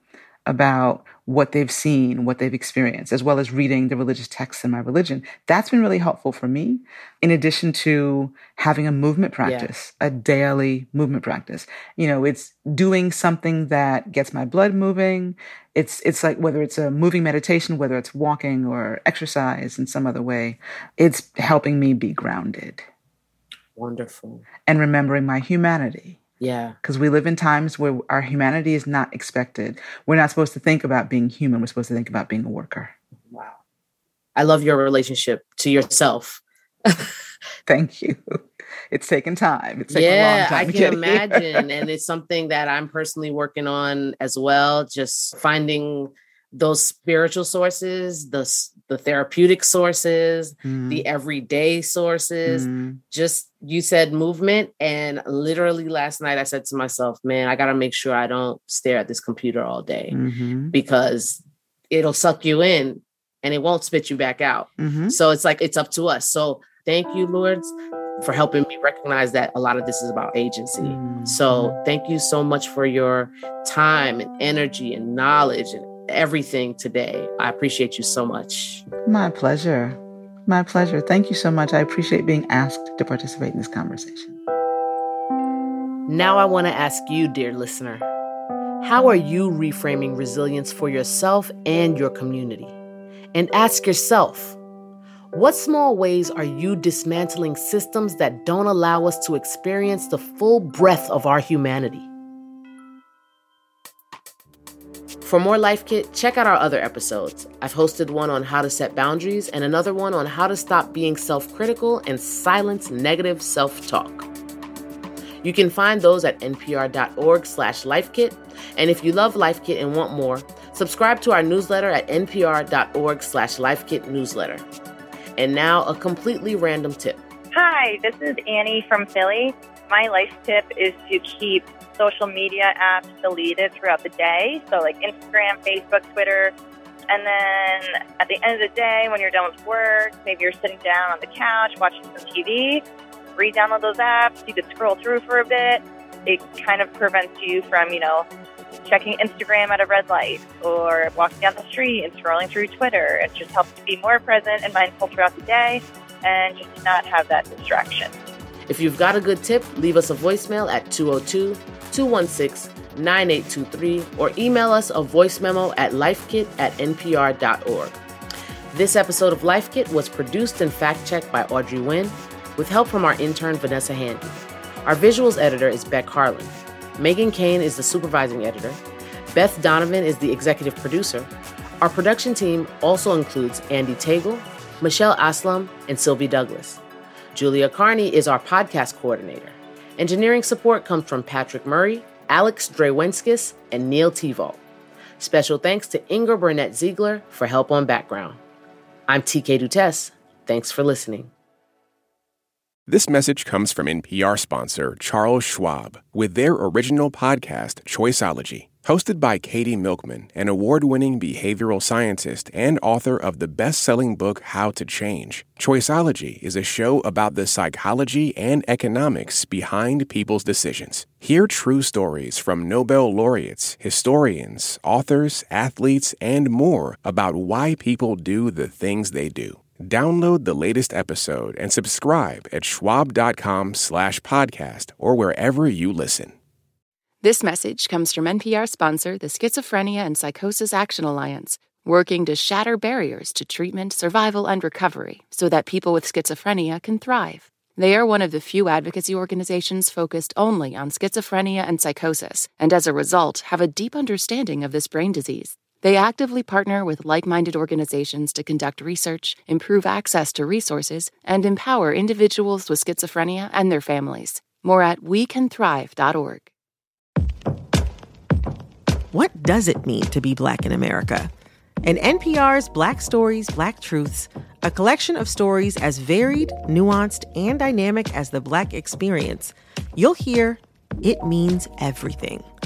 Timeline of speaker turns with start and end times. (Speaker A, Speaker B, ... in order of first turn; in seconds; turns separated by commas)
Speaker A: 0.5-22.9, Speaker B: 9.4-9.7, Speaker B: 23.8-24.4, Speaker A: 24.7-26.2, Speaker B: 26.4-26.8, Speaker A: 26.8-32.9, Speaker B: 33.3-33.6, Speaker B: 34.4-37.1, Speaker A: 37.7-41.6, Speaker B: 39.9-60.2, Speaker A: 50.6-51.1, Speaker A: 52.5-53.0, Speaker A: 60.1-60.7, Speaker B: 60.7-78.8, Speaker A: 64.8-65.2, Speaker A: 70.8-71.8, Speaker A: 79.0-84.4, Speaker B: 86.1-88.1, Speaker B: 88.8-92.8, Speaker B: 93.3-94.6, Speaker B: 95.3-102.1, Speaker B: 105.2-114.3, Speaker B: 115.4-124.7, Speaker B: 125.4-127.2, Speaker C: 127.5-136.5, Speaker C: 137.1-142.8, Speaker C: 143.4-148.3, Speaker C: 148.9-158.1, Speaker B: 158.7-168.0, Speaker B: 168.7-178.8, Speaker B: 179.3-181.3, Speaker B: 181.8-186.8, Speaker B: 187.3-194.6, Speaker B: 195.2-198.4, Speaker B: 199.1-201.3, Speaker D: 202.9-236.4, Speaker E: 237.2-266.5, Speaker F: 269.1-271.3, Speaker F: 271.8-282.5